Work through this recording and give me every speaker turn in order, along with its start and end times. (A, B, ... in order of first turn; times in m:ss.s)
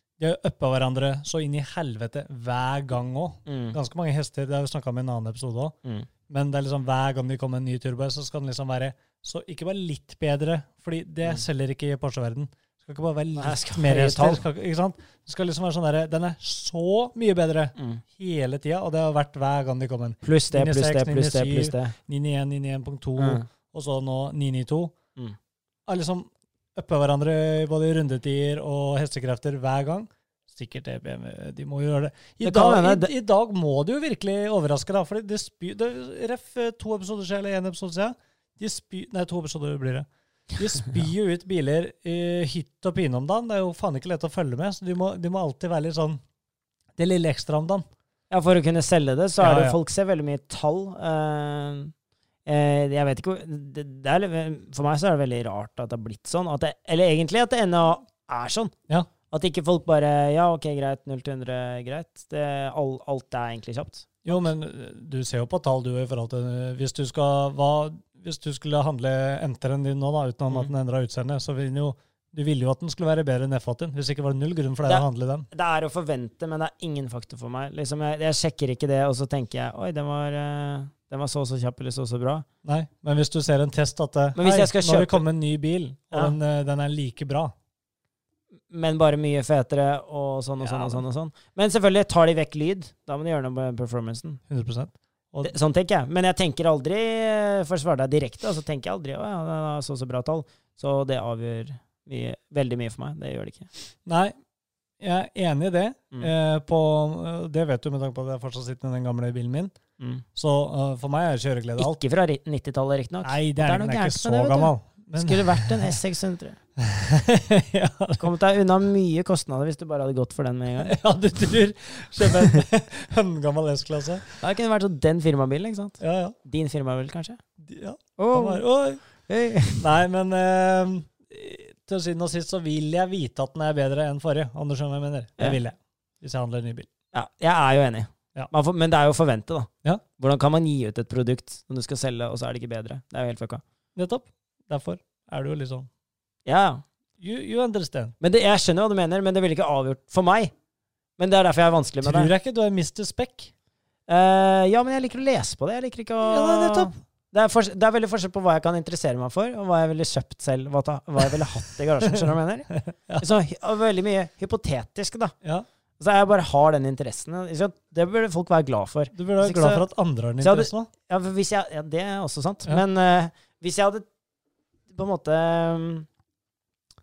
0:00.2-0:05.7 A
0:03.4-0:03.8 B
0:06.3-0:24.9 A
0:13.3-0:14.4 B
0:17.8-0:18.0 B
0:20.2-0:21.9 B
0:23.2-0:23.4 B
0:25.9-0:46.2 A
0:32.4-0:33.1 B
0:47.0-0:47.8 A
0:48.3-0:51.9 B
0:49.4-0:49.8 A
0:52.4-0:58.7 B
0:59.3-1:04.5 B
1:04.2-1:15.5 A
1:14.8-1:22.4 B
1:22.6-1:27.5 A
1:24.3-1:25.2 B
1:28.7-1:34.4 B
1:30.6-1:31.0 A
1:34.5-1:35.5 A
1:35.4-1:43.7 B
1:44.0-1:44.3 A
1:45.0-1:49.7 A
1:50.0-1:50.2 B
1:50.3-1:52.0 A
1:51.8-1:56.6 B
1:53.2-1:56.0 A
1:56.8-1:58.3 A
1:58.2-2:01.0 B
2:00.8-2:04.3 A
2:04.4-2:07.4 B
2:06.0-2:06.4 A
2:07.6-2:09.0 A
2:08.2-2:08.6 B
2:09.2-2:09.8 B
2:09.8-2:16.9 A
2:17.1-2:23.6 B
2:24.0-2:25.9 A
2:26.4-2:26.8 B
2:27.2-2:28.1 A
2:28.2-2:30.5 B
2:31.2-2:32.3 B
2:32.0-2:33.5 A
2:34.1-2:45.3 B
2:36.2-2:36.9 A
2:42.1-2:43.2 A
2:46.0-2:49.8 B
2:49.1-2:50.9 A
2:50.4-2:54.0 B
2:54.9-2:56.1 B